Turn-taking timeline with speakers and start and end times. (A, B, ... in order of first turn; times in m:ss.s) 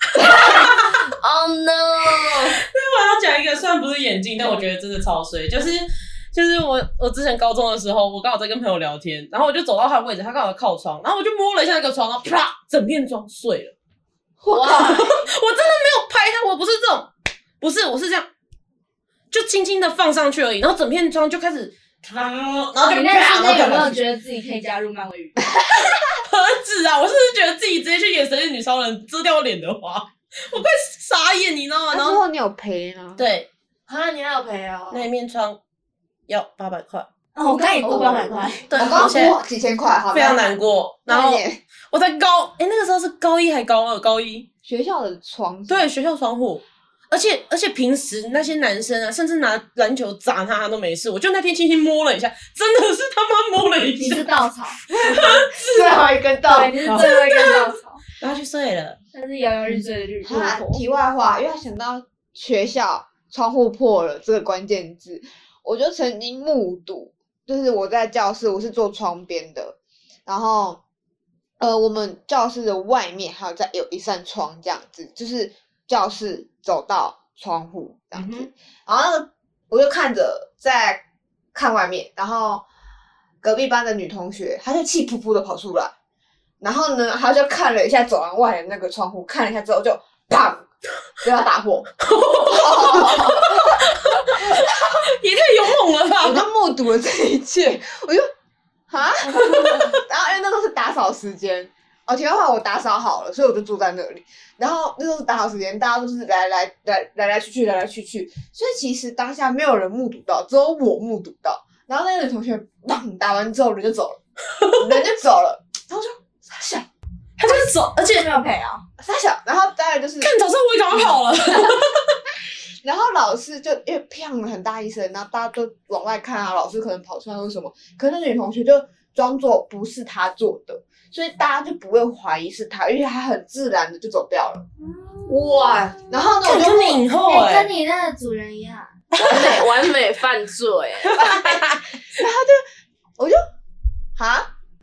0:00.6-0:00.9 A
0:01.2-0:02.6 B
0:02.2-0:13.7 A
0:14.5-0:15.1 B
0:14.5-0:14.9 C
0:14.7-0:17.1 A
0:17.6-0:18.3 A
0:19.3-0:24.0 A
0:22.8-0:25.5 D
0:25.8-0:32.2 A
0:31.9-0:33.2 C
0:33.2-0:33.5 A
0:33.9-0:35.1 B
0:34.9-0:35.6 A
0:36.3-0:37.1 A
0:37.4-0:38.7 D
0:37.8-0:40.4 C
0:38.7-0:39.4 A
0:40.1-0:44.5 A
0:41.1-0:41.6 C
0:44.6-0:45.9 C
0:45.7-0:54.4 A
0:54.0-0:54.8 D
0:54.9-0:55.9 A
0:55.0-0:57.0 C
0:56.5-0:58.0 D
0:56.8-0:57.6 A
0:58.2-0:59.0 A
0:59.1-1:00.8 D
1:00.2-1:10.8 C
1:11.6-1:21.0 C
1:18.1-1:18.5 A
1:21.5-1:22.6 C
1:23.4-1:25.9 C
1:26.6-1:30.7 C
1:31.2-1:34.8 C
1:32.0-1:36.5 A
1:36.2-1:38.3 C
1:38.9-1:54.2 C
1:54.7-1:56.9 C
1:57.4-1:58.3 A
1:58.0-1:58.8 D
1:59.0-2:00.3 C
2:00.2-2:02.1 A
2:02.8-2:14.6 C
2:14.8-2:15.5 D
2:15.3-2:16.0 B
2:16.0-2:17.0 C
2:16.4-2:17.7 A
2:17.2-2:18.9 D
2:19.2-2:19.6 A
2:19.2-2:21.2 B
2:21.1-2:21.8 A
2:21.2-2:22.6 C
2:24.2-2:24.5 C